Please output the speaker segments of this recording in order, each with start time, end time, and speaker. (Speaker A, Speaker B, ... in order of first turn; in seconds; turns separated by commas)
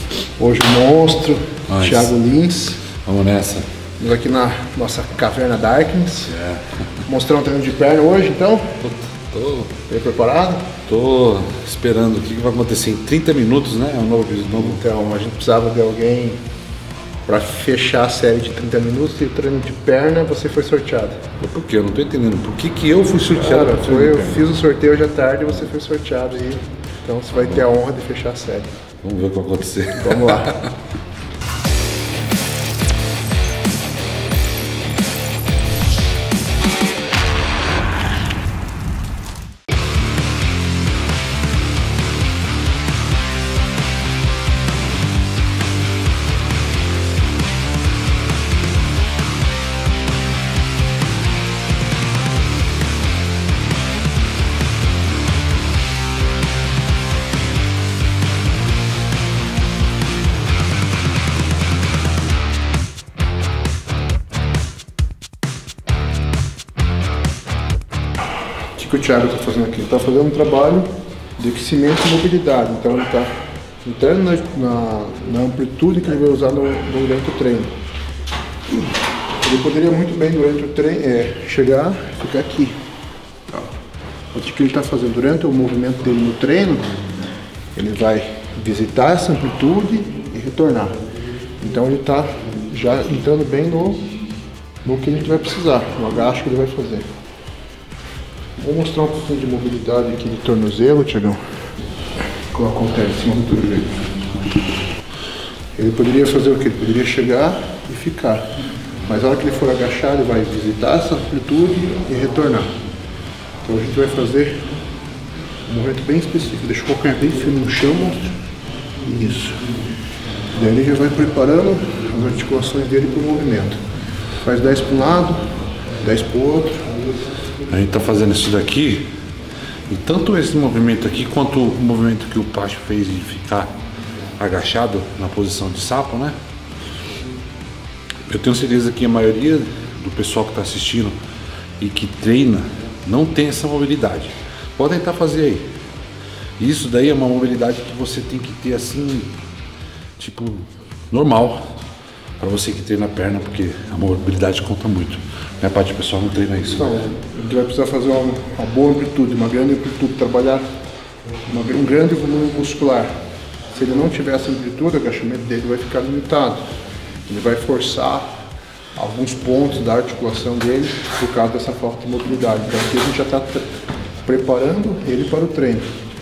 Speaker A: 0.4-2.8, Speaker B: 1.7-2.1, Speaker B: 2.9-3.7, Speaker A: 4.0-6.3, Speaker B: 6.2-6.8, Speaker A: 7.0-8.8, Speaker B: 8.8-9.7, Speaker A: 9.9-10.7, Speaker B: 10.9-14.8, Speaker A: 14.5-16.4, Speaker A: 17.3-21.2, Speaker B: 21.4-24.4, Speaker A: 23.3-28.7, Speaker B: 29.0-30.7, Speaker A: 29.9-30.6, Speaker A: 68.8-77.8, Speaker A: 79.4-82.8, Speaker A: 84.3-87.0, Speaker A: 87.7-91.0, Speaker A: 91.6-94.1, Speaker A: 94.8-97.1, Speaker A: 98.6-101.4, Speaker A: 102.5-104.1, Speaker A: 105.8-108.5, Speaker A: 109.0-112.8, Speaker A: 113.6-114.7, Speaker A: 115.7-118.3, Speaker A: 119.0-119.7, Speaker A: 120.5-123.8, Speaker A: 124.4-126.9, Speaker B: 127.7-129.1, Speaker B: 129.9-133.7, Speaker B: 134.4-136.3, Speaker B: 138.3-141.1, Speaker B: 141.8-145.7, Speaker B: 146.6-149.3, Speaker B: 150.2-151.6, Speaker B: 152.4-157.0, Speaker A: 156.7-160.7, Speaker A: 161.5-163.1, Speaker A: 163.7-166.7, Speaker A: 167.3-168.3, Speaker A: 168.9-173.7, Speaker A: 174.2-175.9